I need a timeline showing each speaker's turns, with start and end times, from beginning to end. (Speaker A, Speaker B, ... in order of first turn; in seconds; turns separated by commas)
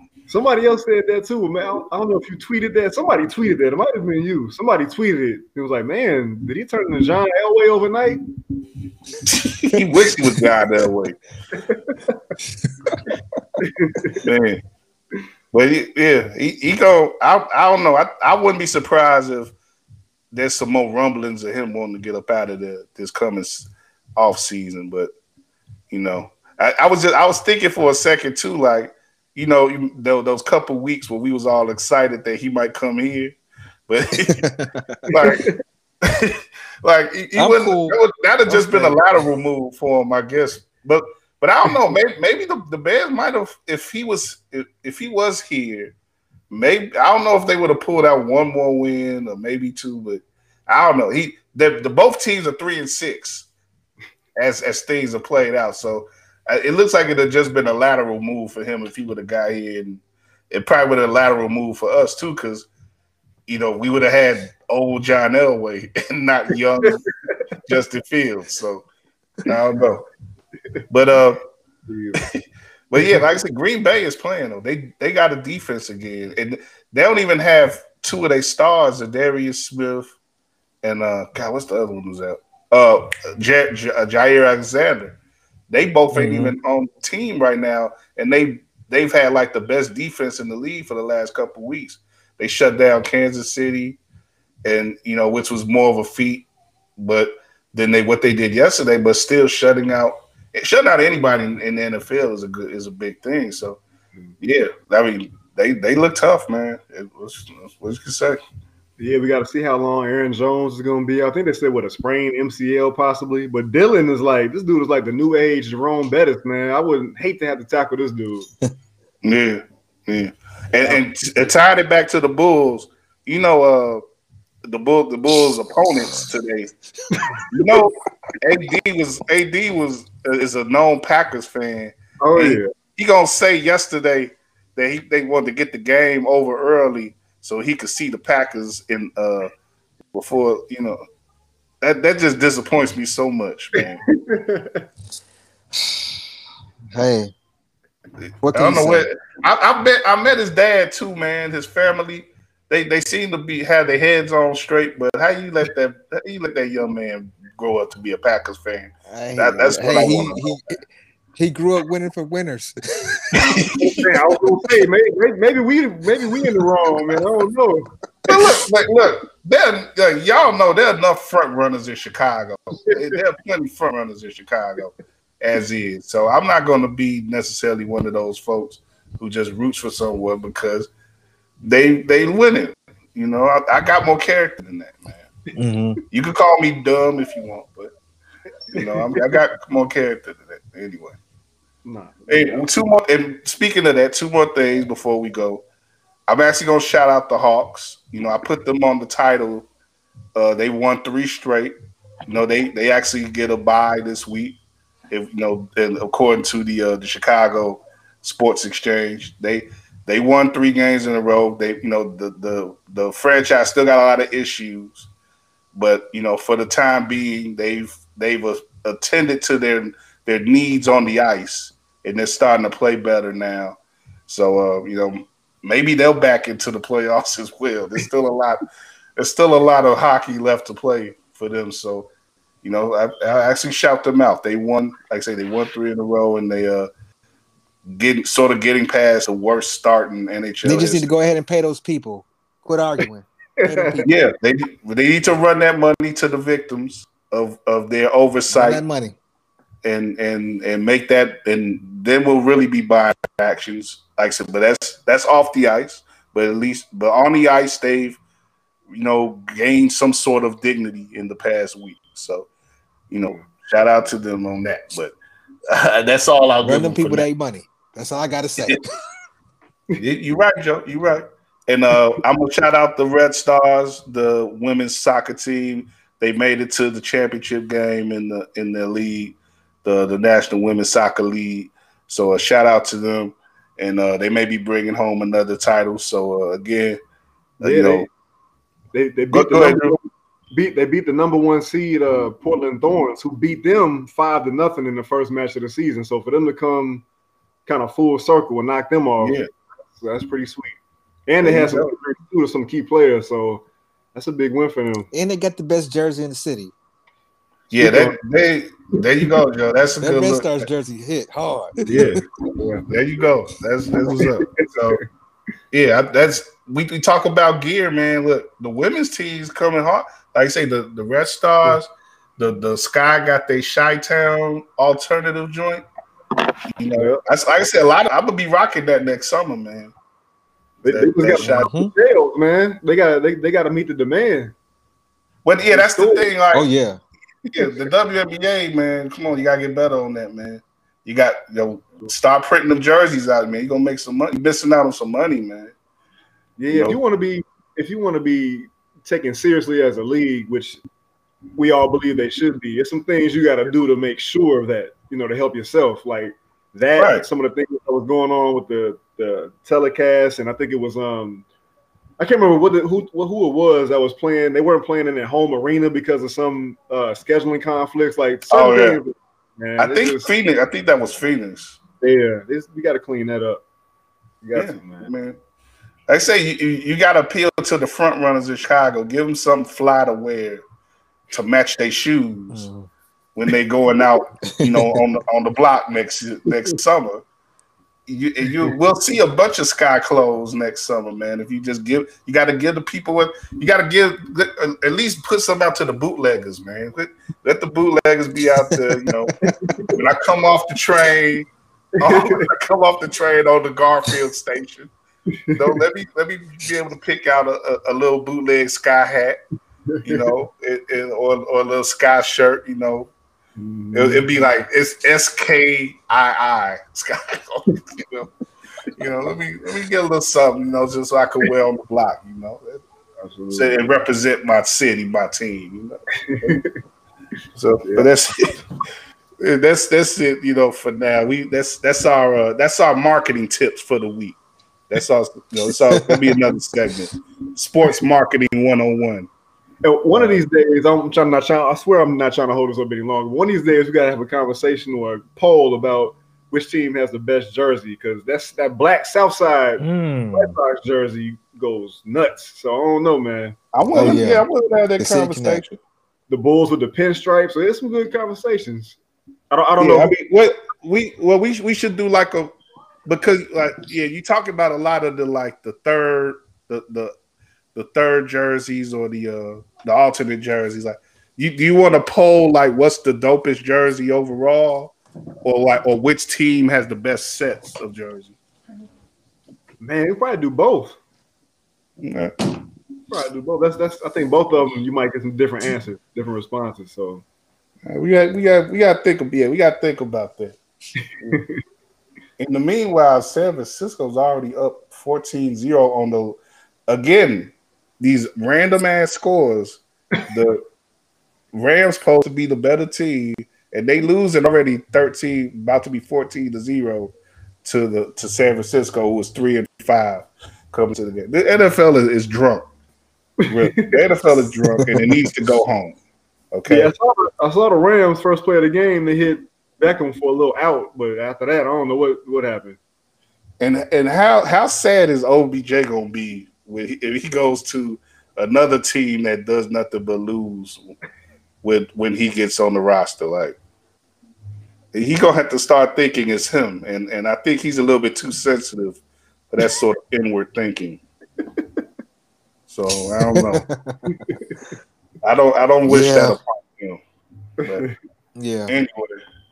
Speaker A: 0.3-8.2, Speaker B: 9.2-11.2, Speaker A: 11.6-12.2, Speaker C: 12.8-13.1, Speaker A: 13.6-14.2, Speaker B: 14.2-14.6, Speaker B: 15.5-19.5, Speaker B: 20.3-25.1, Speaker B: 25.9-33.4, Speaker B: 33.9-34.5, Speaker C: 34.3-35.0, Speaker B: 35.1-35.5, Speaker A: 35.2-35.5, Speaker B: 36.0-45.9, Speaker C: 37.4-39.0, Speaker B: 46.5-53.5, Speaker B: 54.4-62.7, Speaker B: 63.5-67.0, Speaker B: 67.7-68.8, Speaker B: 69.4-70.0, Speaker B: 70.9-71.4, Speaker A: 71.9-72.3, Speaker B: 72.9-80.1, Speaker B: 80.8-85.2, Speaker B: 85.7-94.0, Speaker C: 86.1-86.5, Speaker B: 94.6-103.8, Speaker B: 104.4-108.4, Speaker A: 109.0-118.5, Speaker B: 119.2-124.0, Speaker B: 124.7-126.7, Speaker B: 127.5-139.5, Speaker A: 132.2-132.7, Speaker B: 140.1-141.0, Speaker B: 141.8-144.0, Speaker A: 143.8-144.8, Speaker C: 146.9-147.3, Speaker C: 148.4-149.1, Speaker B: 148.5-160.4, Speaker C: 159.1-160.8, Speaker C: 161.3-163.7, Speaker B: 163.3-164.2, Speaker A: 163.8-167.9, Speaker B: 168.3-180.9, Speaker B: 181.6-185.3, Speaker C: 185.5-186.0, Speaker B: 186.1-187.9, Speaker B: 188.7-191.2, Speaker A: 188.7-189.3, Speaker A: 191.8-192.7, Speaker B: 192.3-195.6, Speaker B: 196.3-199.7, Speaker B: 200.3-201.7, Speaker B: 202.3-204.6, Speaker B: 205.1-215.1, Speaker B: 215.7-228.6, Speaker B: 229.2-232.1, Speaker B: 232.6-236.9, Speaker B: 237.8-241.1, Speaker C: 240.6-244.2, Speaker A: 243.6-243.9, Speaker B: 244.0-248.8, Speaker C: 248.5-249.2, Speaker B: 249.8-258.2, Speaker B: 258.9-262.5, Speaker B: 263.1-265.1, Speaker B: 265.7-267.2, Speaker C: 266.6-268.9, Speaker B: 269.9-287.0, Speaker B: 287.6-288.1, Speaker A: 287.6-288.1, Speaker A: 288.9-297.1, Speaker B: 289.3-289.9, Speaker A: 297.6-299.4, Speaker B: 299.2-299.5, Speaker A: 299.9-305.1, Speaker B: 301.4-301.9, Speaker C: 305.1-306.7, Speaker A: 307.7-308.2, Speaker B: 307.7-310.7, Speaker C: 310.0-312.1, Speaker A: 311.9-312.8, Speaker B: 311.9-312.2, Speaker B: 312.9-315.0, Speaker A: 314.1-315.0, Speaker B: 315.7-325.8, Speaker B: 326.8-329.9, Speaker A: 326.9-327.2, Speaker A: 330.8-334.5, Speaker B: 330.9-331.7, Speaker C: 331.4-331.9, Speaker B: 335.4-336.7, Speaker A: 335.7-336.3, Speaker C: 336.5-337.0, Speaker B: 337.5-345.7, Speaker A: 346.6-350.8, Speaker B: 346.7-347.0, Speaker A: 351.5-361.4, Speaker B: 357.0-357.2, Speaker A: 362.2-370.3, Speaker B: 368.5-369.0, Speaker B: 369.8-371.8, Speaker A: 372.0-373.6, Speaker A: 374.4-375.1, Speaker B: 374.5-375.4, Speaker B: 376.1-380.6, Speaker B: 381.3-382.7, Speaker C: 382.5-382.9, Speaker B: 383.3-387.2, Speaker C: 384.5-385.0, Speaker B: 388.1-404.9, Speaker A: 399.4-399.9, Speaker A: 402.0-402.5, Speaker A: 405.4-405.8, Speaker B: 405.5-409.4, Speaker B: 410.0-413.1, Speaker A: 413.6-414.3, Speaker B: 413.9-418.3, Speaker B: 418.9-422.8, Speaker A: 423.2-423.9, Speaker B: 423.5-426.6, Speaker A: 426.2-426.8, Speaker B: 427.6-428.4, Speaker B: 429.4-434.4, Speaker B: 434.9-439.3, Speaker C: 435.9-436.3, Speaker A: 439.8-454.2, Speaker C: 449.8-450.6, Speaker B: 453.7-455.8, Speaker C: 453.9-454.5, Speaker C: 455.0-455.6, Speaker A: 456.3-459.0, Speaker A: 459.5-460.1, Speaker B: 459.8-462.5, Speaker B: 463.1-467.1, Speaker B: 467.7-478.4, Speaker A: 479.8-481.0, Speaker B: 482.0-482.6, Speaker A: 483.1-487.2, Speaker B: 487.9-490.6, Speaker A: 491.3-491.6, Speaker B: 492.4-500.6, Speaker B: 501.5-512.7, Speaker A: 513.4-514.0, Speaker B: 513.5-516.0, Speaker A: 514.6-515.0, Speaker B: 516.5-516.9, Speaker A: 516.7-522.8, Speaker B: 523.6-530.8, Speaker B: 531.6-533.6, Speaker B: 534.9-541.0, Speaker B: 542.7-543.6, Speaker C: 543.2-544.3, Speaker A: 544.1-544.5, Speaker B: 545.2-547.0, Speaker C: 545.9-546.4, Speaker A: 547.6-548.0, Speaker C: 548.4-548.7, Speaker B: 548.7-549.2